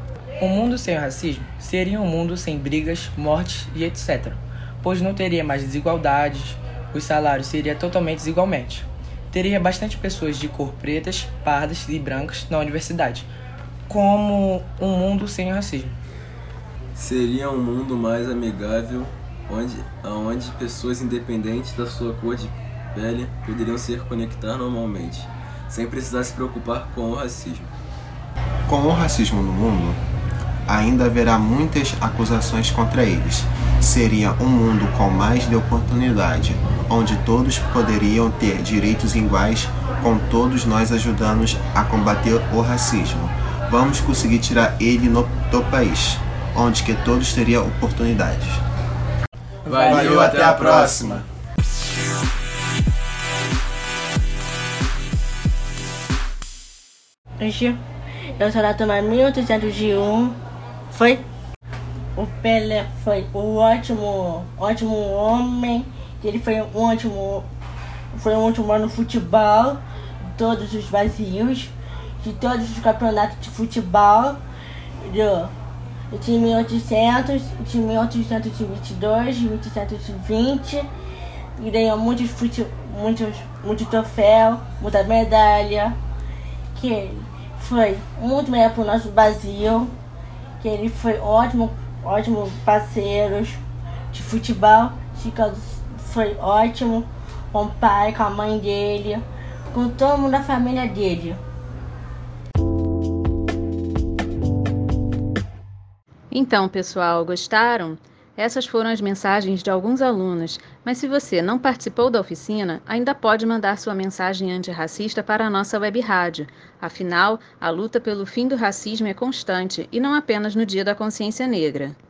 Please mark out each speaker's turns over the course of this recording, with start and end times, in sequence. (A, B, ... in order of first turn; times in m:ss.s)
0:00.4-0:13.3 A
0:13.9-0:16.0 A
0:16.9-0:27.7 B
0:28.7-0:30.0 C
0:30.7-0:48.6 C
0:49.6-0:51.2 B
0:49.7-0:50.1 D
0:49.9-0:51.2 C
0:57.4-0:57.8 D
0:58.4-1:00.4 D
1:00.9-1:01.2 D
1:02.2-1:07.4 D
1:08.1-1:09.8 D
1:10.3-1:14.4 D
1:15.0-1:15.5 D
1:16.1-1:20.9 D
1:21.6-1:26.0 D
1:26.7-1:29.9 D
1:30.6-1:33.6 D
1:34.1-1:41.4 D
1:46.3-2:02.0 E